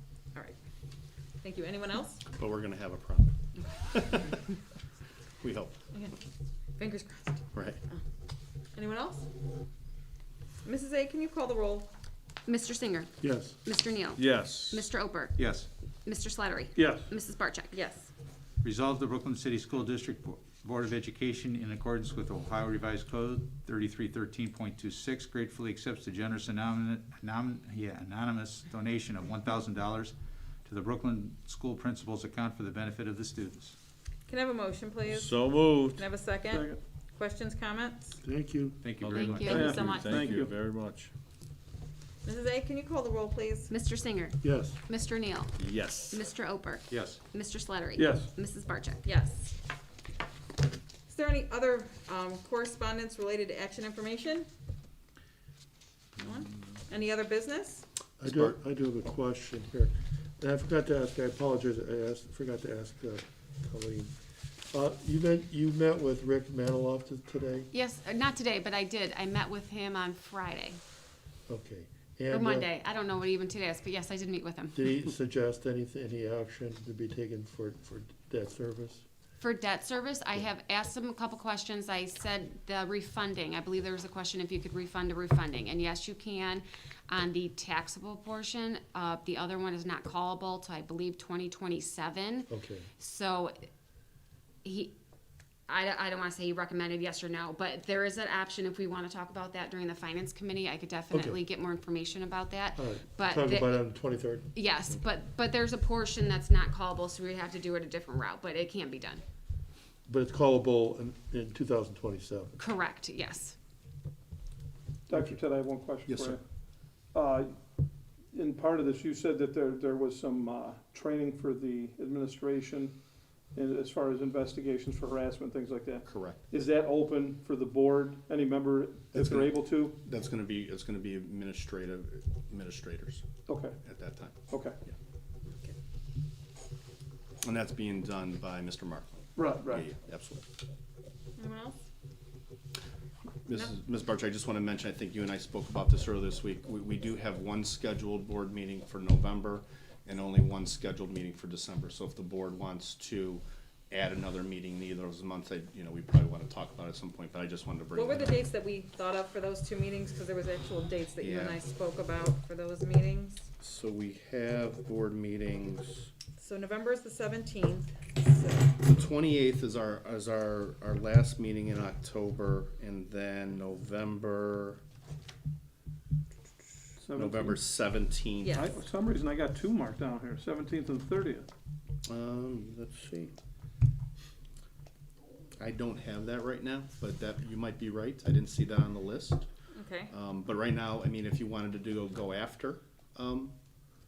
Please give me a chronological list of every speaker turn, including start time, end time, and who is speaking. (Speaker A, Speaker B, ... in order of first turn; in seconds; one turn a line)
Speaker A: 1.4-2.2
Speaker B: 2.4-4.4
Speaker B: 5.4-5.8
Speaker A: 6.8-8.0
Speaker B: 7.5-7.8
Speaker A: 8.7-9.3
Speaker A: 10.6-11.9
Speaker C: 12.5-15.4
Speaker D: 13.2-13.6
Speaker E: 14.2-14.8
Speaker F: 15.4-15.7
Speaker C: 16.1-17.8
Speaker G: 16.8-17.1
Speaker A: 17.7-18.1
Speaker F: 18.6-33.8
Speaker A: 34.3-38.2
Speaker E: 35.1-36.0
Speaker G: 36.5-36.8
Speaker D: 38.2-38.8
Speaker F: 38.8-39.9
Speaker E: 39.0-41.1
Speaker A: 39.1-40.2
Speaker C: 39.1-39.9
Speaker G: 39.5-40.5
Speaker A: 42.2-43.7
Speaker C: 43.7-49.0
Speaker D: 44.4-44.8
Speaker E: 45.6-46.2
Speaker F: 46.9-47.2
Speaker G: 48.0-48.3
Speaker A: 49.0-49.5
Speaker A: 51.1-54.5
Speaker A: 56.2-57.9
Speaker D: 58.2-64.1
Speaker B: 58.3-58.6
Speaker D: 64.7-67.7
Speaker C: 67.7-70.8
Speaker D: 71.5-72.7
Speaker C: 72.3-75.0
Speaker D: 74.8-79.0
Speaker C: 79.4-93.7
Speaker D: 92.5-92.9
Speaker C: 94.6-95.0
Speaker C: 95.7-103.9
Speaker D: 101.1-101.4
Speaker D: 102.8-104.5
Speaker C: 104.5-109.2
Speaker D: 110.1-112.6
Speaker C: 112.6-113.6
Speaker G: 115.1-116.4
Speaker D: 115.1-115.4
Speaker D: 116.1-116.3
Speaker G: 117.1-117.5
Speaker G: 118.3-123.0
Speaker G: 123.5-130.0
Speaker B: 126.1-126.4
Speaker B: 129.2-129.5
Speaker B: 130.0-133.3
Speaker G: 133.5-133.8
Speaker B: 133.8-134.4
Speaker G: 134.5-134.8
Speaker B: 137.4-139.1
Speaker G: 139.4-139.9
Speaker B: 139.7-140.4
Speaker A: 141.4-141.8
Speaker B: 143.5-158.5
Speaker A: 157.9-163.5
Speaker B: 161.2-161.6
Speaker B: 163.6-166.1
Speaker A: 166.4-168.7
Speaker B: 168.8-174.8
Speaker G: 177.0-177.7
Speaker B: 177.2-178.6
Speaker A: 178.4-178.8
Speaker G: 178.6-181.5
Speaker B: 182.1-183.3
Speaker B: 185.6-189.4
Speaker A: 189.7-190.1
Speaker B: 190.1-193.5